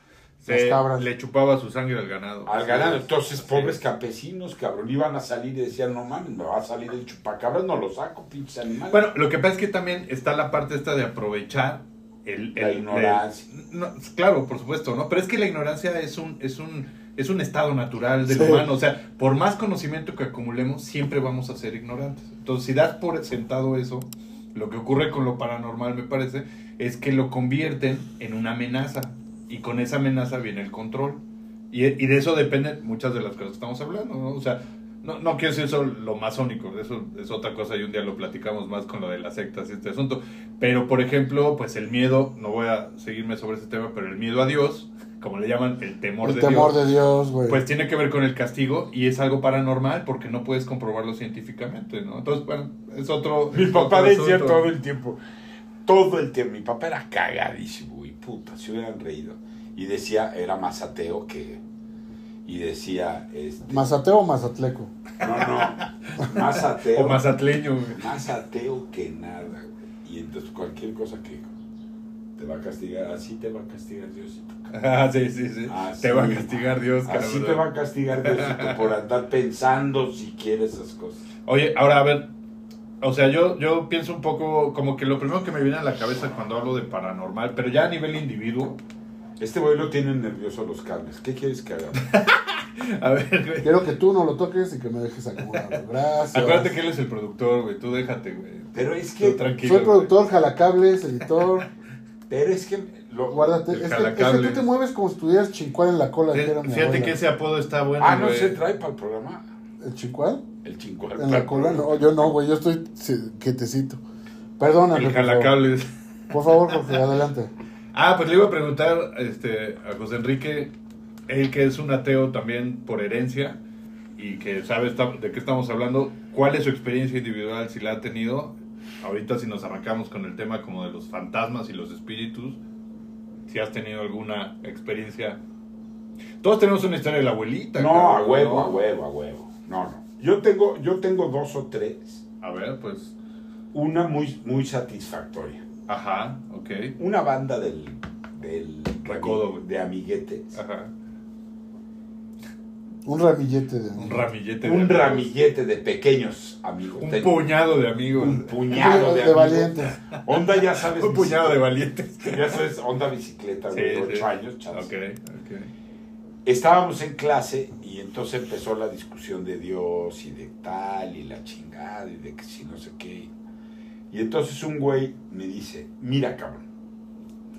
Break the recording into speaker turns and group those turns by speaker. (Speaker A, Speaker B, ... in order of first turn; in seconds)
Speaker A: 0.4-3.8, 8.9-46.8, 47.5-54.6, 65.2-68.1, 74.7-77.6, 78.3-78.8, 81.5-82.3, 83.0-88.8, 92.0-93.7, 95.5-95.8, 96.3-100.1, 103.7-104.7, 106.3-108.6, 114.9-116.6, 117.9-120.7, 121.3-123.6, 124.2-132.6, 133.5-135.4, 136.4-138.8, 142.4-143.1, 145.9-146.9, 149.1-149.6, 150.5-150.9, 154.0-155.3, 157.0-158.6, 160.8-162.6, 163.7-165.7
Speaker B: 0.5-1.1, 18.3-18.6, 46.2-47.6, 63.7-64.9, 93.6-96.7, 99.6-101.7, 103.3-107.2, 109.8-110.4, 111.1-114.0, 114.6-115.5, 116.3-117.5, 153.1-154.2, 158.7-160.0
Speaker C: 2.5-9.0, 12.5-13.4, 53.5-55.2, 55.8-61.6, 62.5-63.9, 65.2-67.3, 67.9-71.5, 72.4-74.6, 75.7-81.2, 89.4-92.0, 98.7-99.4, 102.3-103.6, 108.0-109.5, 110.6-112.3, 137.8-142.2, 143.7-145.6, 147.0-150.6, 154.6-157.4, 158.2-161.7, 162.2-164.9, 166.4-173.3, 174.1-176.7